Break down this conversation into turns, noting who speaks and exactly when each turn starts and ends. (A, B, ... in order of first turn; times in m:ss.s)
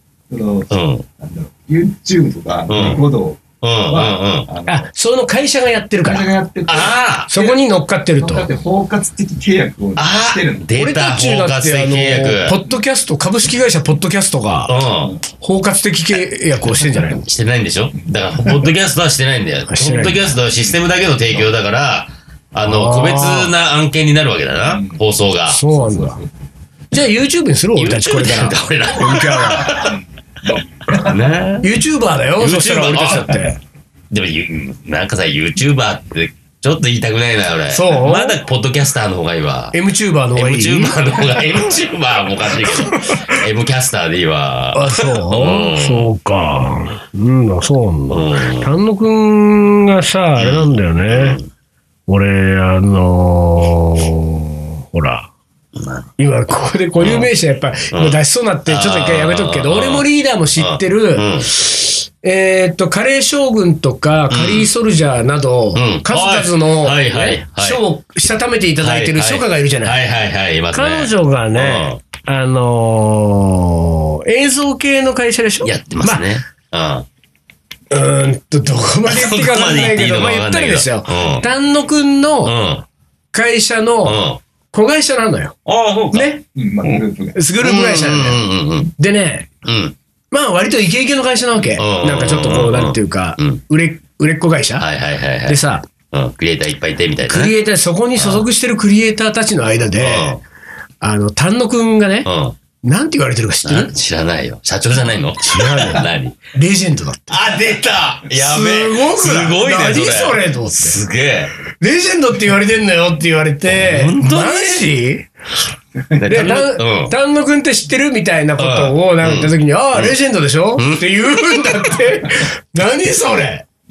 0:00.3-0:04.9 A
0:00.7-0:01.0 B
0:02.7-0:03.0 B
0:03.6-0:04.5 B
0:04.7-0:06.3 C
0:06.0-0:07.6 A
0:06.7-0:07.3 B
0:07.3-0:08.4 C
0:08.2-0:10.7 A
0:10.0-0:12.6 B
0:10.8-0:14.7 C
0:14.7-0:15.1 B
0:15.4-0:17.2 C
0:17.2-0:25.6 B
0:18.4-0:18.7 A
0:19.7-0:20.4 C
0:22.6-0:23.5 C
0:24.6-0:25.0 A
0:25.5-0:26.2 C
0:25.7-0:26.3 A
0:26.9-0:29.9 C
0:27.8-0:30.0 B
0:29.7-0:31.1 A
0:30.9-0:31.7 B
0:31.6-0:33.6 C
0:32.4-0:33.5 B
0:34.1-0:39.8 B
0:37.7-0:38.4 C
0:39.7-0:41.6 C
0:40.3-0:46.1 B
0:42.6-0:43.4 C
0:44.7-0:51.4 C
0:48.1-0:48.7 B
0:50.4-0:51.5 B
0:52.1-0:55.3 C
0:55.7-0:56.1 B
0:56.2-1:10.0 C
0:57.0-0:57.3 B
0:57.9-1:01.5 B
1:04.3-1:04.7 B
1:05.7-1:07.8 B
1:08.8-1:12.0 B
1:10.7-1:16.3 C
1:15.6-1:17.1 B
1:17.9-1:22.6 C
1:19.0-1:21.5 B
1:22.4-1:22.8 B
1:23.3-1:25.6 C
1:24.0-1:24.4 B
1:25.6-1:26.3 B
1:26.1-1:26.4 C
1:26.6-1:27.4 A
1:27.3-1:28.4 C
1:27.6-1:28.9 B
1:29.0-1:29.5 C
1:29.6-1:30.0 B
1:30.3-1:34.9 C
1:31.8-1:33.6 B
1:34.8-1:35.6 B
1:35.4-1:35.9 C
1:36.1-1:37.5 B
1:37.2-1:40.4 C
1:38.2-1:38.4 B
1:40.0-1:40.4 B
1:41.0-1:42.3 C
1:42.2-1:42.6 B
1:42.8-1:43.9 C
1:43.6-1:46.4 B
1:45.4-1:47.4 C
1:47.3-1:51.5 B
1:48.3-1:51.0 C
1:51.8-1:55.3 C
1:53.6-1:54.9 B
1:56.2-1:57.1 B
1:56.2-2:03.7 C
1:58.6-2:00.2 B
2:00.8-2:01.1 B
2:01.6-2:02.0 B